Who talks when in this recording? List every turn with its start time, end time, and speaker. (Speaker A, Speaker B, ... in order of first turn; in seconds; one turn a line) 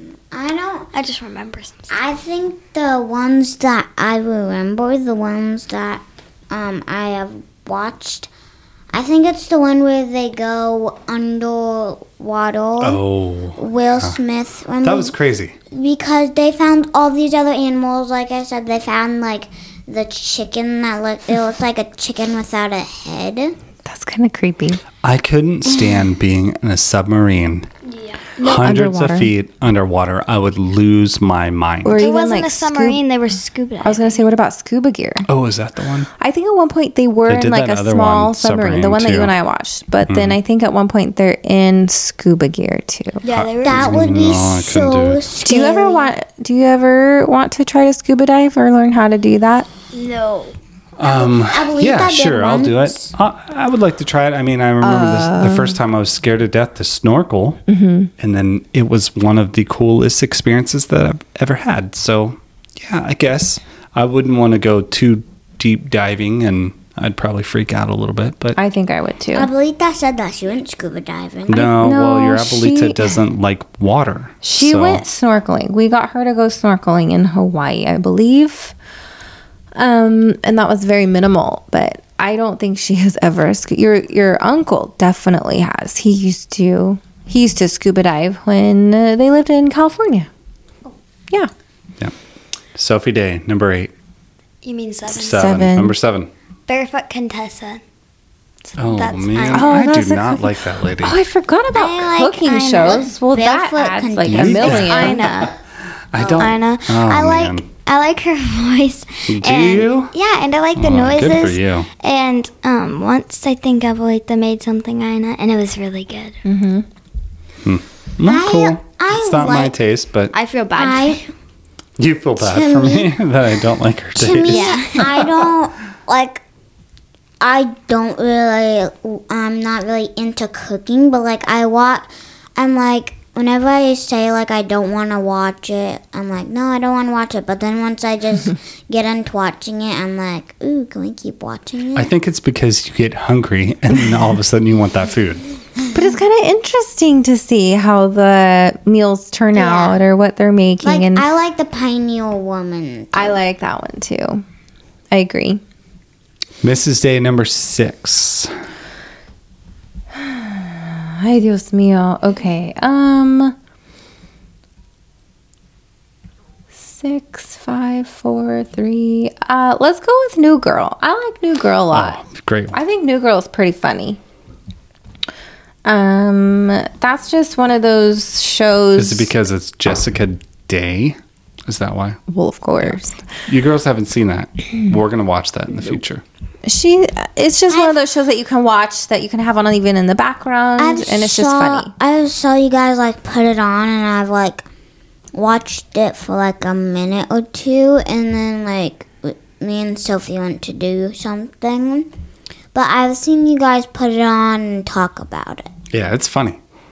Speaker A: 0.3-0.9
Speaker B: 0.9-1.9
Speaker A: 1.9-8.3
Speaker A: 8.9-13.0
Speaker C: 12.8-14.2
Speaker A: 13.6-15.1
Speaker C: 14.8-15.6
Speaker A: 15.7-23.6
Speaker D: 23.9-24.8
Speaker C: 25.0-27.7
Speaker B: 27.9-28.7
Speaker C: 28.4-32.0
Speaker D: 28.5-29.3
Speaker D: 31.8-33.0
Speaker B: 32.0-34.2
Speaker D: 33.8-35.3
Speaker C: 35.3-36.1
Speaker D: 36.2-43.2
Speaker C: 37.3-39.3
Speaker C: 40.1-40.4
Speaker B: 43.2-44.1
Speaker C: 43.3-45.2
Speaker A: 43.6-46.1
Speaker D: 45.4-49.7
Speaker B: 49.9-50.5
Speaker C: 51.0-57.6
Speaker A: 51.0-53.1
Speaker D: 54.8-55.8
Speaker D: 57.7-58.1
Speaker C: 58.2-68.6
Speaker D: 68.6-69.5
Speaker A: 69.3-71.7
Speaker C: 71.5-75.0
Speaker D: 71.6-73.2
Speaker D: 74.4-78.8
Speaker D: 79.8-90.3
Speaker C: 92.8-93.9
Speaker B: 94.6-95.6
Speaker C: 95.1-96.3
Speaker D: 95.3-95.9
Speaker B: 96.7-97.8
Speaker B: 98.7-99.8
Speaker C: 98.8-101.2
Speaker D: 99.5-105.2
Speaker A: 101.7-104.9
Speaker C: 104.3-105.5
Speaker B: 104.6-105.5
Speaker C: 106.1-107.7
Speaker A: 106.2-106.5
Speaker B: 106.4-116.4
Speaker C: 109.3-110.1
Speaker C: 110.8-111.9
Speaker D: 116.5-116.9
Speaker C: 117.6-120.3
Speaker A: 118.2-119.7
Speaker B: 120.3-121.3
Speaker A: 120.8-121.3
Speaker C: 122.0-125.3
Speaker A: 122.4-123.1
Speaker A: 124.2-126.4
Speaker B: 124.4-125.3
Speaker A: 127.4-142.1
Speaker C: 141.9-145.4
Speaker D: 145.9-151.3
Speaker A: 149.5-150.0
Speaker A: 150.8-153.4
Speaker D: 153.1-154.4
Speaker D: 155.1-155.6
Speaker C: 156.6-158.5
Speaker D: 160.2-163.6
Speaker D: 166.8-174.2
Speaker C: 171.9-172.8
Speaker D: 175.8-179.3
Speaker C: 179.0-182.2
Speaker D: 182.3-183.2
Speaker C: 182.8-186.2
Speaker D: 186.7-191.9
Speaker A: 187.7-188.0
Speaker A: 190.8-194.7
Speaker A: 195.3-202.1
Speaker A: 202.7-205.7
Speaker C: 205.9-206.6